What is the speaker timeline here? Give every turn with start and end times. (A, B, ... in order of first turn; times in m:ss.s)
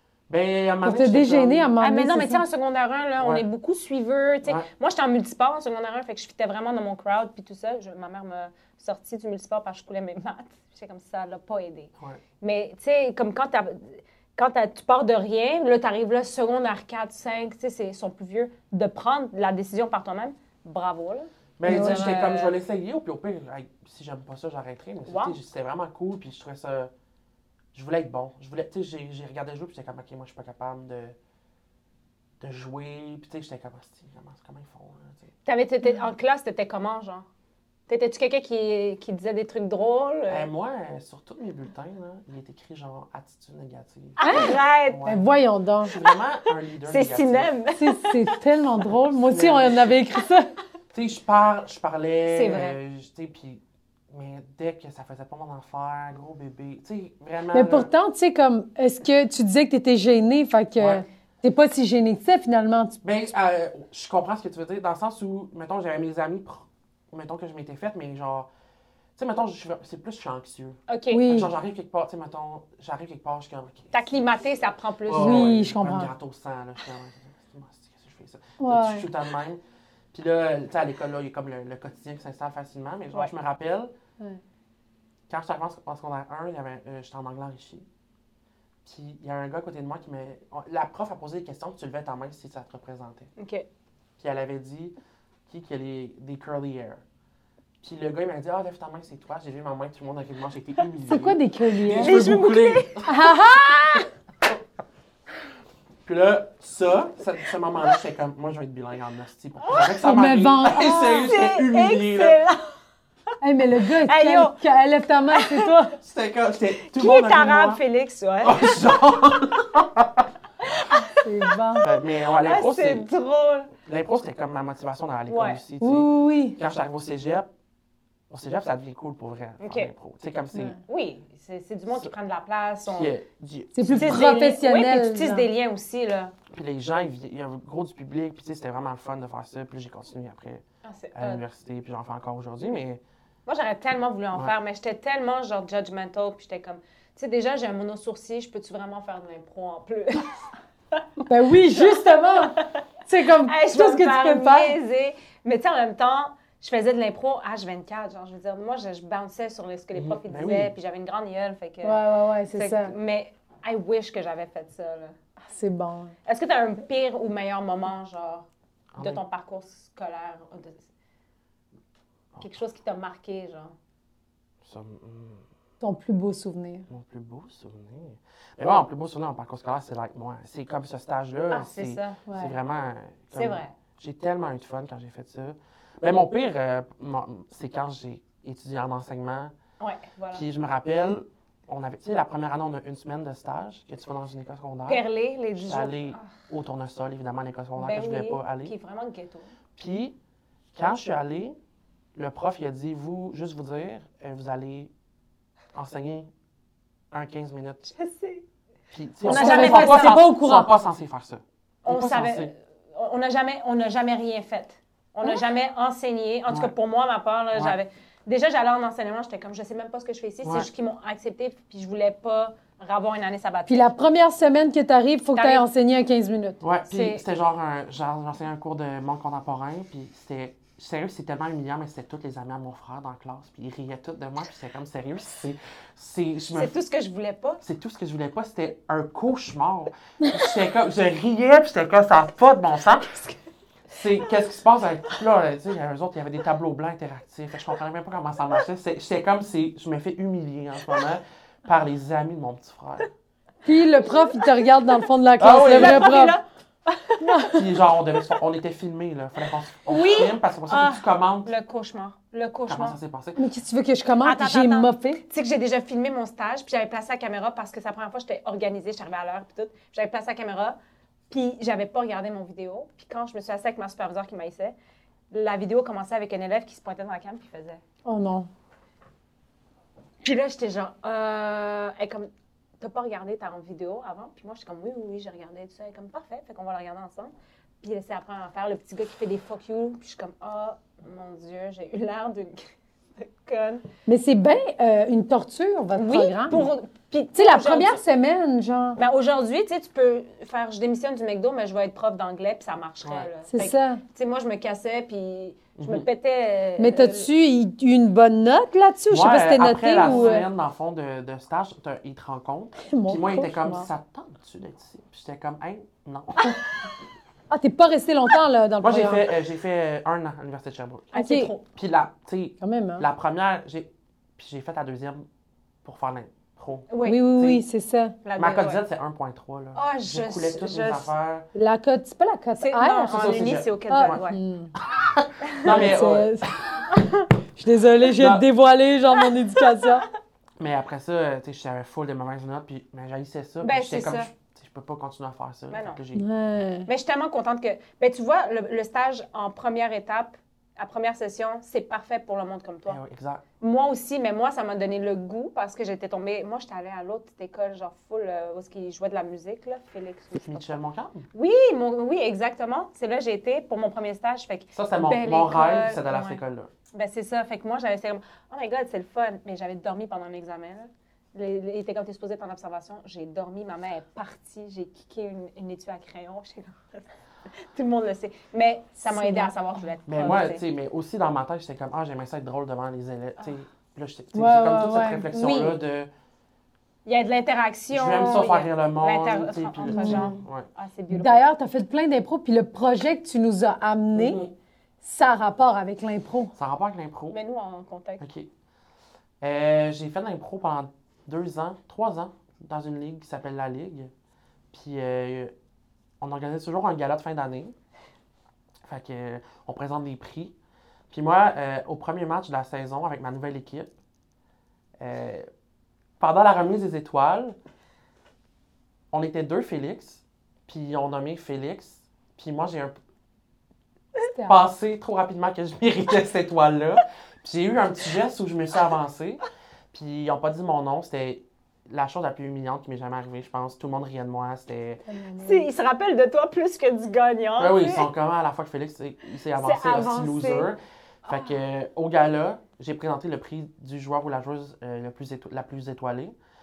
0:00.3-0:01.7 A
0:00.8-0:02.4 B
0:01.8-0:22.6 C
0:03.2-0:03.4 A
0:21.6-0:26.9 A
0:21.6-0:22.1 B
0:25.1-0:25.4 C
0:27.7-0:31.2 A
0:32.4-0:35.3 A
0:35.4-0:37.2 C
0:37.9-0:40.5 C
0:40.3-0:45.2 A
0:44.2-0:45.1 C
0:44.2-0:45.9 B
0:45.8-0:47.5 A
0:46.8-0:48.3 C
0:47.7-0:50.5 B
0:49.0-0:50.0 A
0:50.9-0:57.9 A
0:52.3-0:52.8 C
0:57.5-1:03.0 B
1:00.8-1:01.0 A
1:03.0-1:08.5 A
1:09.2-1:14.1 A
1:10.9-1:11.3 C
1:11.1-1:11.5 B
1:13.9-1:15.5 C
1:15.0-1:19.6 A
1:15.2-1:16.1 B
1:18.6-1:19.1 B
1:20.1-1:23.9 A
1:25.3-1:27.9 A
1:28.8-1:33.3 A
1:33.4-1:33.6 C
1:34.2-1:34.9 A
1:35.5-1:37.0 A
1:37.8-1:43.1 A
1:41.1-1:42.2 B
1:41.9-1:43.0 C
1:43.0-1:44.1 B
1:46.0-1:52.4 A
1:49.6-1:49.9 C
1:50.0-1:51.3 B
1:51.0-1:52.7 C
1:53.4-1:55.9 B
1:53.9-1:54.6 C
1:55.3-1:55.7 C
1:56.0-1:57.8 A
1:56.8-1:58.7 C
1:58.4-2:00.3 A
2:00.6-2:03.7 C
2:01.2-2:01.8 B
2:01.8-2:03.0 A
2:03.8-2:07.5 A
2:05.3-2:05.6 C
2:05.8-2:06.6 B
2:08.3-2:10.8 A
2:09.6-2:09.9 C
2:10.8-2:13.1 C
2:12.9-2:14.3 A
2:13.7-2:15.5 B
2:13.9-2:16.3 C
2:16.5-2:20.6 A
2:20.8-2:21.4 C
2:21.1-2:23.0 A
2:23.4-2:30.4 C
2:31.2-2:34.8 B
2:31.6-2:45.2 C
2:39.9-2:40.7 A
2:41.8-2:42.9 B
2:45.5-2:46.1 B
2:46.2-2:50.8 C
2:48.9-2:49.2 A
2:52.4-2:53.7 C
2:54.6-2:55.4 A
2:55.8-2:56.9 B
2:56.9-3:09.5 A
3:01.5-3:02.2 C
3:02.2-3:02.5 B
3:03.3-3:03.7 C
3:09.8-3:10.4 C
3:10.3-3:15.0 A
3:14.9-3:16.3 C
3:15.6-3:18.7 A
3:17.8-3:19.5 C
3:19.8-3:20.2 A
3:20.7-3:21.6 A
3:22.1-3:24.9 A
3:25.7-3:26.3 A
3:27.1-3:27.9 A
3:27.9-3:28.4 C
3:28.9-3:32.5 A
3:29.2-3:30.3 C
3:29.2-3:30.7 B
3:31.8-3:44.0 C
3:36.5-3:36.7 A
3:40.4-3:40.7 A
3:43.7-3:46.6 B
3:45.3-3:45.6 C
3:46.6-3:56.7 A
3:46.9-3:47.2 C
3:56.5-3:57.6 C
3:57.6-4:03.2 A
4:03.9-4:13.1 A
4:13.6-4:16.4 B
4:14.0-4:14.5 C
4:15.4-4:16.2 A
4:15.6-4:17.6 C
4:17.2-4:17.6 B
4:17.5-4:21.5 A
4:19.8-4:23.0 C
4:22.7-4:23.4 A
4:23.4-4:25.2 B
4:24.2-4:30.8 C
4:31.3-4:34.7 C
4:35.3-4:37.8 C
4:38.0-4:38.5 B
4:40.2-4:53.8 C
4:54.0-4:56.6 B
4:55.9-4:58.0 C
4:57.3-4:59.0 B
4:59.0-5:07.3 C
5:03.0-5:03.3 A
5:03.5-5:04.0 B
5:05.8-5:06.0 A
5:06.8-5:10.4 B
5:09.1-5:16.5 A
5:10.0-5:10.4 C
5:12.8-5:13.9 B
5:17.5-5:19.3 B
5:18.8-5:21.1 A
5:21.1-5:21.6 C
5:21.1-5:21.5 B
5:21.7-5:25.2 A
5:22.6-5:23.0 B
5:25.8-5:27.6 A
5:26.9-5:27.3 C
5:27.0-5:28.2 B
5:28.2-5:28.8 C
5:28.4-5:31.5 A
5:29.7-5:31.1 C
5:31.5-5:33.2 B
5:32.6-5:34.4 C
5:33.1-5:34.2 A
5:33.9-5:34.7 B
5:34.8-5:36.6 A
5:35.4-5:35.8 C
5:35.6-5:36.5 B
5:37.6-5:40.0 B
5:38.0-5:38.4 A
5:40.6-5:46.2 A
5:43.6-5:44.3 C
5:45.7-5:46.0 C
5:46.1-5:46.9 B
5:46.8-5:53.0 C
5:52.9-5:53.4 A
5:53.6-6:00.8 C
6:00.3-6:01.2 A
6:01.3-6:06.4 C
6:04.7-6:06.7 A
6:06.9-6:20.6 C
6:19.0-6:19.5 B
6:20.1-6:26.1 A
6:24.3-6:25.3 B
6:25.3-6:25.8 C
6:27.0-6:31.4 C
6:27.9-6:30.7 A
6:29.9-6:30.3 B
6:31.1-6:34.4 B
6:34.1-6:34.5 A
6:35.0-6:36.5 B
6:36.6-6:37.4 A
6:37.3-6:38.2 C
6:38.2-6:38.5 A
6:39.4-6:44.1 A
6:44.7-6:45.5 A
6:46.2-6:47.7 A
6:48.8-6:50.5 A
6:51.1-6:53.9 A
6:55.0-6:55.4 A
6:56.2-6:57.6 A
6:59.1-7:02.9 A
7:04.2-7:04.7 B
7:04.4-7:15.0 A
7:15.0-7:15.7 B
7:15.4-7:18.1 C
7:17.6-7:26.3 A
7:19.6-7:20.7 C